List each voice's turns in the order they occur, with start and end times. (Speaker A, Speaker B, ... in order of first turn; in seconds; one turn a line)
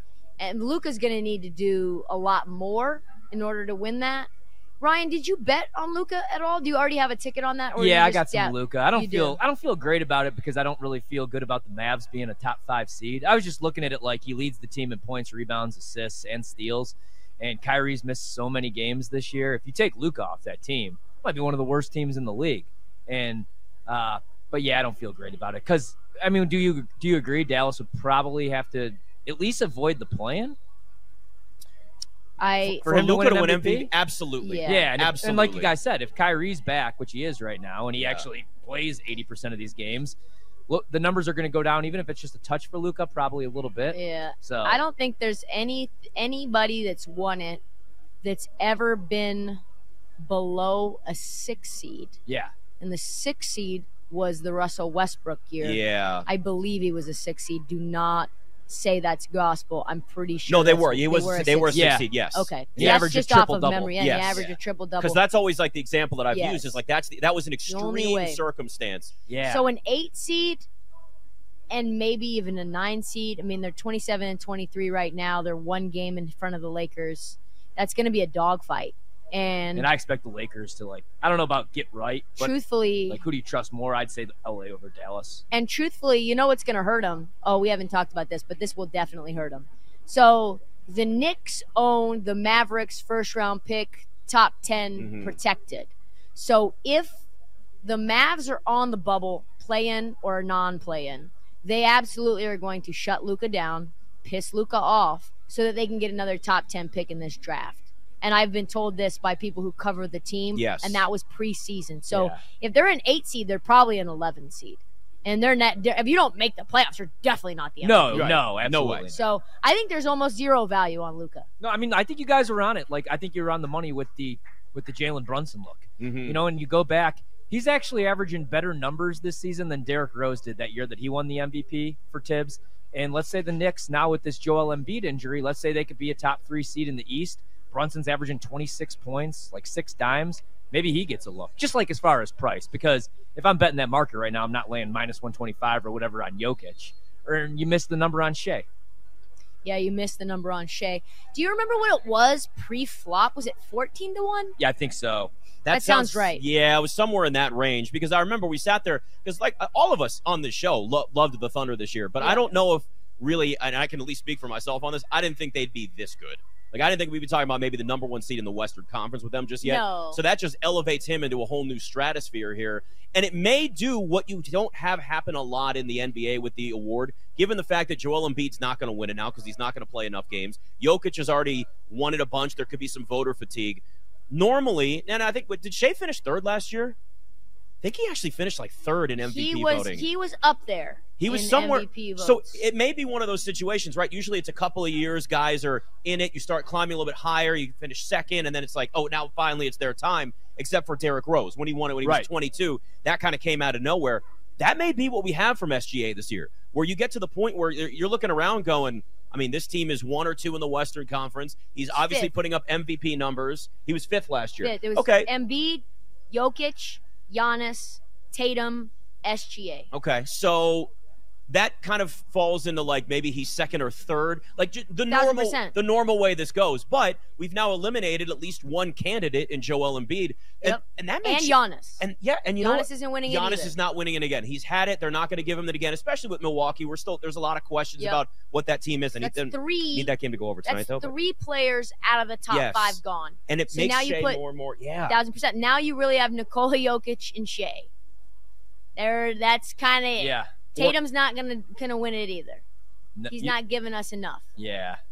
Speaker A: 0.4-4.3
Speaker A: 4.8-9.4
Speaker B: 7.8-30.6
Speaker A: 32.4-32.9
Speaker B: 32.7-33.9
Speaker C: 32.9-35.7
Speaker A: 34.4-34.9
Speaker B: 34.6-40.2
Speaker C: 38.0-38.3
Speaker B: 40.7-44.8
Speaker A: 43.9-47.6
Speaker A: 48.2-49.6
Speaker A: 50.2-52.2
Speaker B: 52.3-52.5
Speaker A: 52.8-65.2
Speaker C: 55.6-56.3
Speaker C: 60.5-63.0
Speaker B: 61.7-62.1
Speaker B: 62.7-64.5
Speaker C: 64.0-64.5
Speaker C: 65.0-69.1
Speaker A: 66.3-66.8
Speaker A: 67.7-68.4
Speaker B: 69.3-69.6
Speaker A: 69.4-70.7
Speaker A: 71.7-79.9
Speaker B: 79.8-82.5
Speaker A: 82.4-83.2
Speaker B: 83.1-85.4
Speaker A: 85.5-97.2
Speaker C: 95.0-95.4
Speaker A: 97.8-118.3
Speaker C: 110.5-111.0
Speaker B: 112.1-112.4
Speaker B: 117.8-119.2
Speaker C: 118.1-119.1
Speaker A: 119.1-121.5
Speaker B: 121.6-148.7
Speaker C: 126.0-126.4
Speaker A: 149.6-154.6
Speaker B: 154.6-155.3
Speaker C: 155.6-187.0
Speaker A: 155.7-156.4
Speaker A: 162.2-162.5
Speaker A: 169.6-170.2
Speaker C: 187.8-190.1
Speaker A: 189.2-192.6
Speaker C: 191.2-215.3
Speaker B: 202.0-202.3
Speaker A: 211.9-212.3
Speaker A: 214.6-219.9
Speaker C: 219.9-220.9
Speaker C: 221.5-241.1
Speaker A: 225.1-225.8
Speaker A: 230.6-232.1
Speaker A: 232.6-233.8
Speaker A: 238.0-238.2
Speaker A: 239.2-240.1
Speaker A: 240.7-244.4
Speaker C: 242.5-245.2
Speaker A: 245.1-247.9
Speaker A: 249.0-252.6
Speaker B: 250.2-250.6
Speaker B: 253.2-253.5
Speaker A: 253.3-254.5
Speaker B: 254.6-255.0